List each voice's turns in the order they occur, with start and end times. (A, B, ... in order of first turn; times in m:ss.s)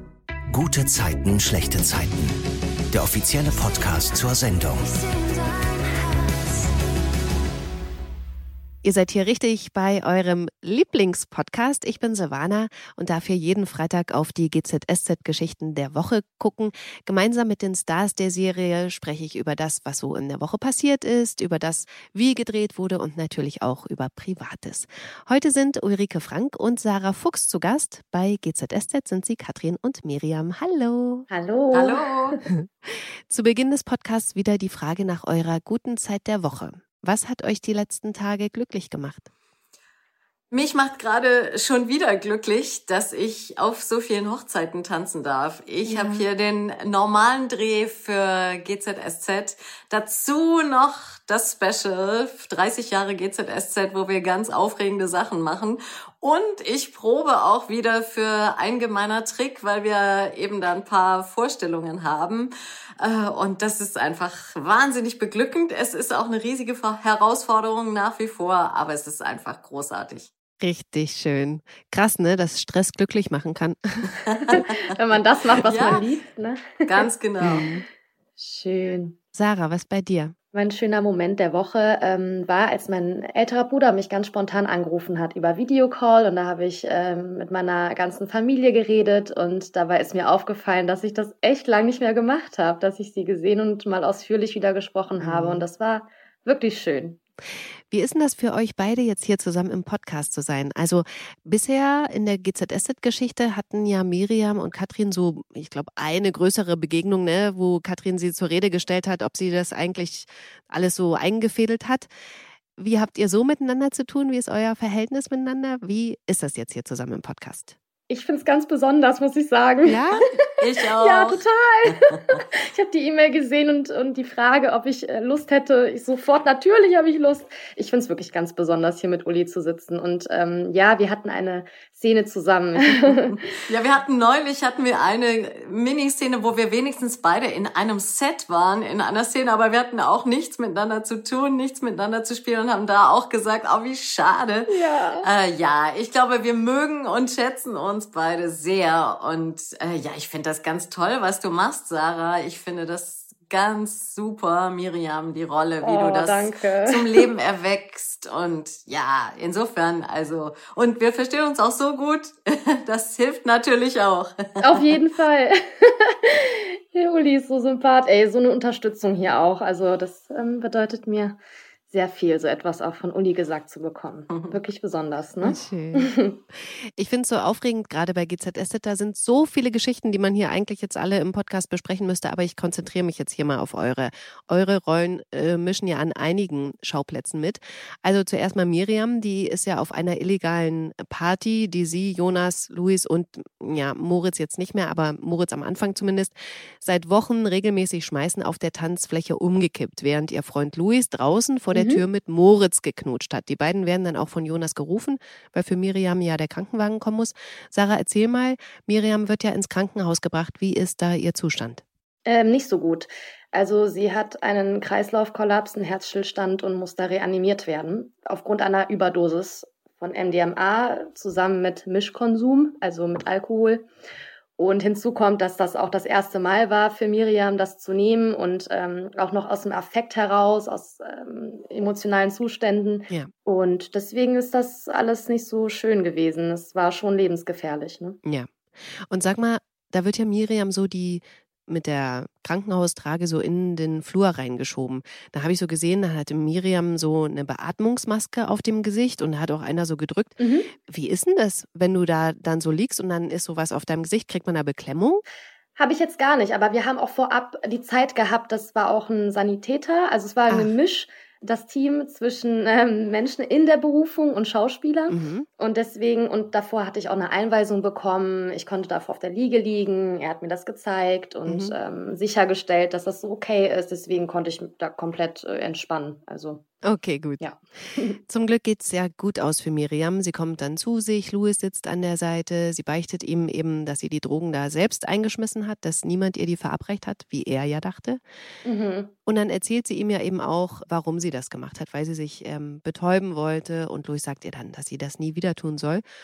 0:00.5-0:02.4 A
0:02.9-0:05.1 A
0:08.8-0:31.3 B
0:31.3-0:32.1 C
0:31.7-0:32.4 D
0:32.6-0:39.3 B
0:40.5-1:10.3 D
0:45.8-0:46.3 B
1:10.6-1:14.2 B
1:14.3-1:14.6 D
1:14.5-1:16.9 C
1:15.6-1:16.0 D
1:16.9-1:17.7 D
1:17.4-1:17.8 B
1:18.4-1:19.2 C
1:19.3-1:20.3 B
1:20.5-1:37.2 C
1:35.2-1:35.6 B
1:37.9-1:52.1 B
1:52.8-1:57.8 B
1:58.1-2:00.0 C
1:59.8-2:00.2 B
2:00.5-2:01.4 D
2:01.0-2:13.4 C
2:12.8-2:45.0 D
2:24.7-2:25.3 C
2:35.8-2:37.3 C
2:44.6-2:51.4 C
2:51.9-2:56.3 C
2:55.4-3:31.8 B
3:21.7-3:22.0 C
3:32.2-3:43.8 C
3:44.6-3:58.2 C
3:58.2-3:58.5 B
3:59.1-4:15.2 B
4:10.4-4:10.7 C
4:15.8-4:36.6 C
4:20.5-4:20.7 B
4:25.1-4:25.5 B
4:31.4-4:31.7 B
4:36.8-4:48.2 B
4:37.4-4:38.2 C
4:48.6-4:49.1 C
4:49.2-4:56.0 B